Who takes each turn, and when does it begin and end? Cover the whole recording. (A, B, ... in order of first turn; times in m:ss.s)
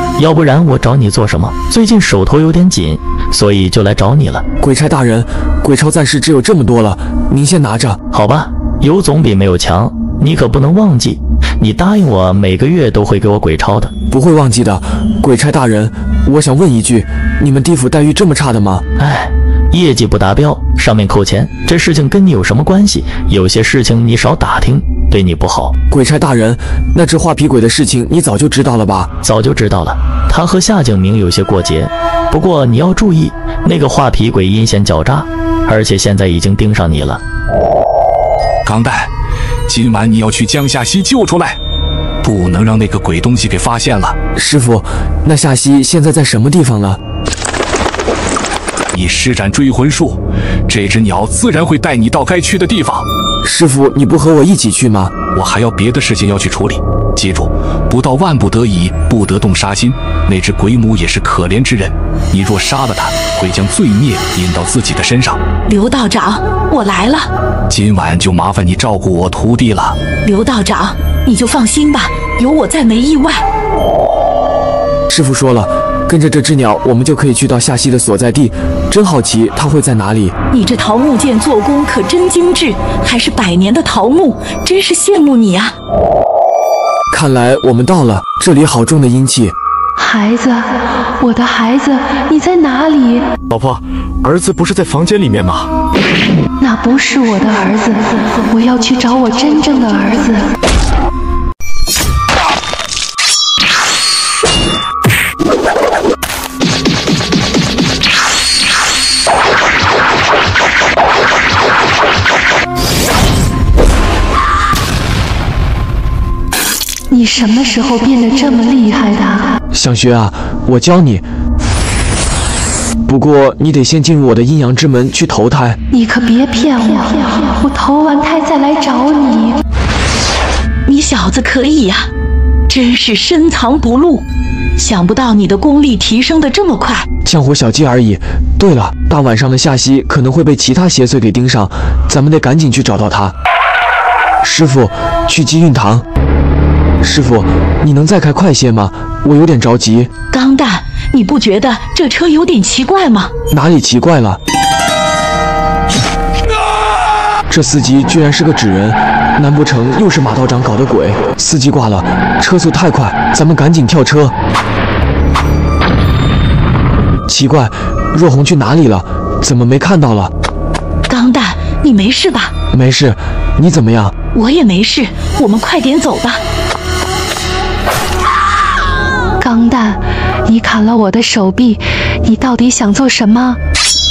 0:00.2-0:04.4 A
0:04.6-0:08.0 B
0:08.1-0:13.9 A
0:14.1-0:18.8 B
0:19.0-0:25.7 A
0:25.9-0:29.1 B
0:29.2-0:37.2 A
0:38.6-0:39.1 C
0:39.7-0:41.6 C
0:42.2-0:44.2 C
0:44.4-0:47.0 B
0:48.9-0:53.1 C
0:53.4-0:55.1 B
0:55.3-1:05.4 C
1:05.7-1:07.3 D
1:07.7-1:10.0 C
1:10.2-1:13.4 D
1:15.1-1:20.3 B
1:20.5-1:25.7 D
1:27.1-1:29.5 B
1:30.0-1:33.2 E
1:33.5-1:35.7 F
1:36.6-1:40.5 E
1:57.1-1:59.5 E
1:59.7-2:01.2 B
2:03.0-2:05.8 B
2:05.9-2:09.6 E
2:10.9-2:12.1 D
2:12.7-2:14.2 D
2:14.8-2:17.1 D
2:17.2-2:23.3 B
2:24.4-2:26.0 B
2:27.0-2:30.1 B
2:30.3-2:33.3 D
2:33.5-2:34.4 B
2:37.5-2:44.3 B
2:47.3-2:50.3 B
2:51.1-2:52.5 D
2:52.7-2:54.1 B
2:54.3-2:56.4 D
2:59.4-3:03.6 E